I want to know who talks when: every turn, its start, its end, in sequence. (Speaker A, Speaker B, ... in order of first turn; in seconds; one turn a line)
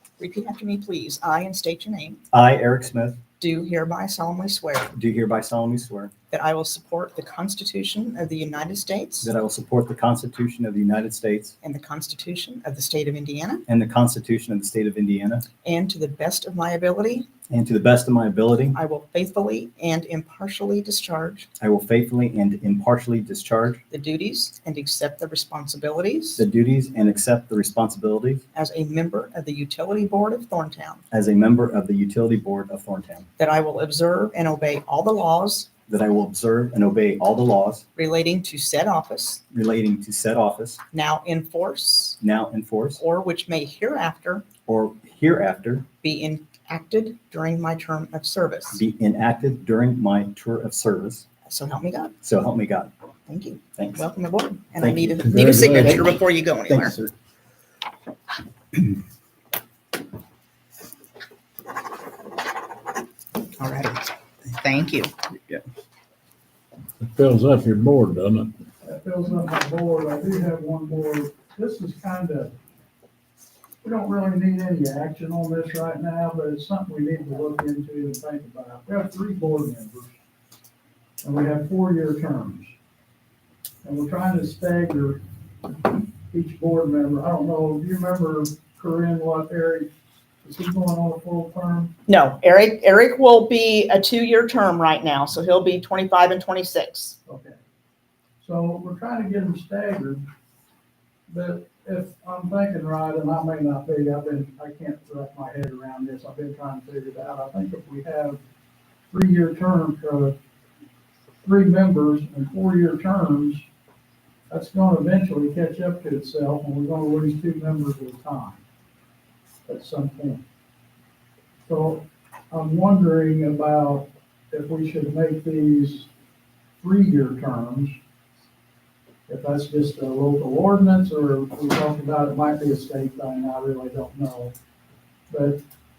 Speaker A: 0.2-2.2
Speaker B: 2.3-3.2
Speaker A: 3.4-4.9
Speaker B: 4.9-6.1
Speaker A: 6.3-9.3
Speaker B: 9.2-11.5
Speaker A: 11.6-13.6
Speaker B: 13.7-15.5
Speaker A: 15.6-17.3
Speaker B: 17.5-18.8
Speaker A: 18.7-21.5
Speaker B: 21.6-23.8
Speaker A: 23.9-26.4
Speaker B: 26.4-28.4
Speaker A: 28.5-31.0
Speaker B: 31.1-33.3
Speaker A: 33.4-35.7
Speaker B: 35.9-37.8
Speaker A: 38.0-39.4
Speaker B: 39.5-40.8
Speaker A: 40.9-42.2
Speaker B: 42.2-43.0
Speaker A: 43.0-44.5
Speaker B: 44.6-45.9
Speaker A: 45.9-48.8
Speaker B: 48.7-51.2
Speaker A: 51.5-52.1
Speaker B: 52.2-52.9
Speaker A: 53.3-56.9
Speaker B: 53.8-54.0
Speaker B: 54.8-56.0
Speaker C: 55.1-56.2
Speaker B: 56.7-57.1
Speaker A: 63.6-65.1
Speaker C: 67.0-68.5
Speaker D: 68.8-72.5
Speaker D: 73.8-80.2
Speaker D: 81.2-82.7
Speaker D: 83.8-85.2
Speaker D: 86.3-89.9
Speaker D: 90.4-91.9
Speaker A: 92.1-97.2
Speaker D: 97.3-97.6
Speaker D: 98.4-100.2
Speaker D: 101.3-108.4
Speaker D: 109.1-110.3
Speaker D: 111.4-113.7
Speaker D: 114.5-118.6
Speaker D: 119.7-120.4
Speaker D: 121.7-126.1
Speaker D: 126.8-127.9
Speaker D: 129.3-134.5
Speaker D: 135.3-135.6